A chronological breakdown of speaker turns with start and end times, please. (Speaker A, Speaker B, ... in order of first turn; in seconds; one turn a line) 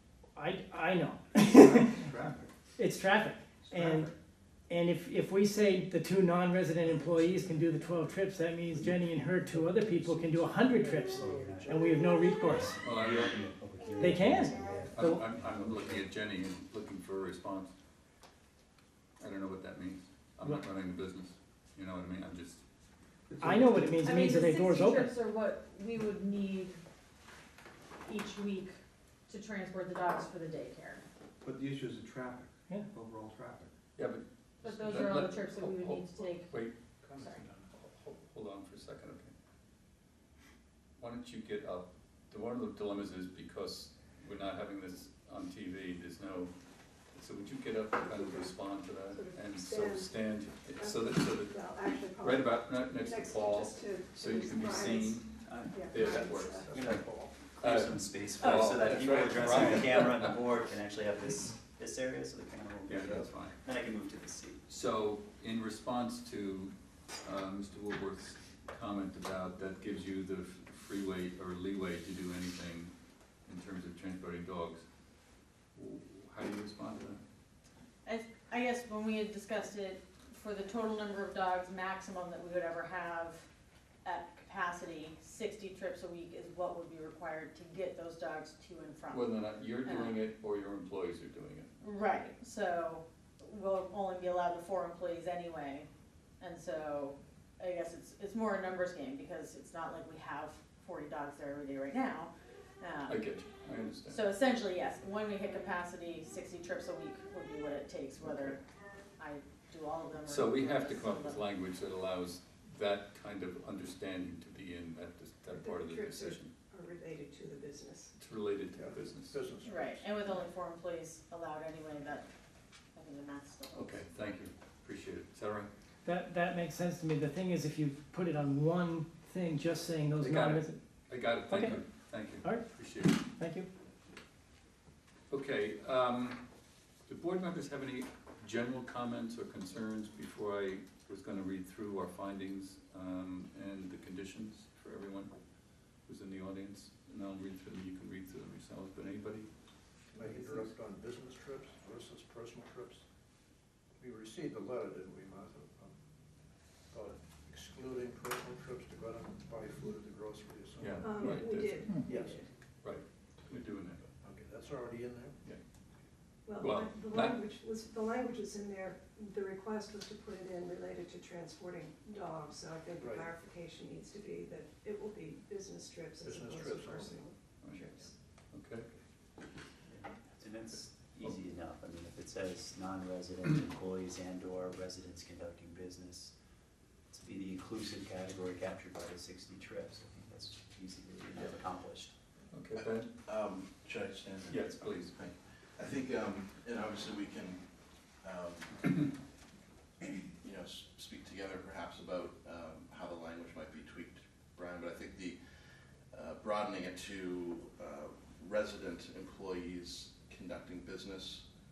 Speaker A: 0.4-2.0
Speaker B: 1.7-2.5
Speaker A: 2.8-4.1
Speaker B: 3.6-4.1
Speaker A: 4.7-12.8
Speaker C: 9.6-16.1
Speaker B: 10.7-11.9
Speaker D: 12.8-13.4
Speaker A: 14.0-15.3
Speaker D: 14.9-17.7
Speaker D: 19.2-22.6
Speaker B: 23.3-24.0
Speaker A: 23.4-25.1
Speaker E: 24.0-26.8
Speaker E: 28.0-28.8
Speaker E: 29.3-31.0
Speaker B: 31.4-33.7
Speaker D: 34.0-39.3
Speaker E: 34.6-36.5
Speaker E: 37.1-37.5
Speaker D: 41.0-46.5
Speaker D: 47.1-60.3
Speaker F: 48.0-48.6
Speaker F: 49.1-50.1
Speaker F: 50.8-56.7
Speaker C: 55.5-55.8
Speaker C: 56.7-64.6
Speaker B: 56.7-57.3
Speaker D: 62.9-63.6
Speaker D: 64.7-72.9
Speaker D: 73.5-74.8
Speaker D: 75.8-77.2
Speaker E: 78.0-83.5
Speaker E: 84.0-89.3
Speaker D: 89.1-91.7
Speaker E: 89.8-90.2
Speaker E: 91.8-95.9
Speaker E: 96.4-103.2
Speaker D: 103.1-104.2
Speaker E: 104.1-108.6
Speaker D: 108.2-108.5
Speaker E: 109.2-111.4
Speaker D: 110.3-116.5
Speaker F: 115.5-118.2
Speaker D: 118.2-119.4
Speaker G: 118.7-120.4
Speaker E: 119.7-122.3
Speaker E: 123.0-124.0
Speaker D: 123.7-125.7
Speaker A: 126.0-130.8
Speaker D: 130.2-133.2
Speaker A: 131.4-133.7
Speaker D: 135.3-136.4
Speaker D: 137.1-145.3
Speaker D: 146.1-149.5
Speaker G: 150.1-153.0
Speaker G: 154.0-155.9
Speaker G: 156.9-161.4
Speaker D: 160.8-162.0
Speaker F: 161.0-162.5
Speaker G: 162.0-162.4
Speaker D: 162.8-164.1
Speaker G: 164.2-165.4
Speaker F: 166.4-178.2
Speaker D: 166.6-167.4
Speaker G: 173.0-173.3
Speaker G: 176.2-177.3
Speaker D: 177.6-178.9
Speaker C: 179.9-186.3
Speaker D: 180.7-181.4
Speaker C: 187.1-192.1
Speaker D: 192.5-193.1
Speaker H: 193.2-197.6
Speaker D: 194.5-195.2
Speaker H: 198.2-199.1
Speaker H: 200.4-205.4
Speaker H: 206.1-211.4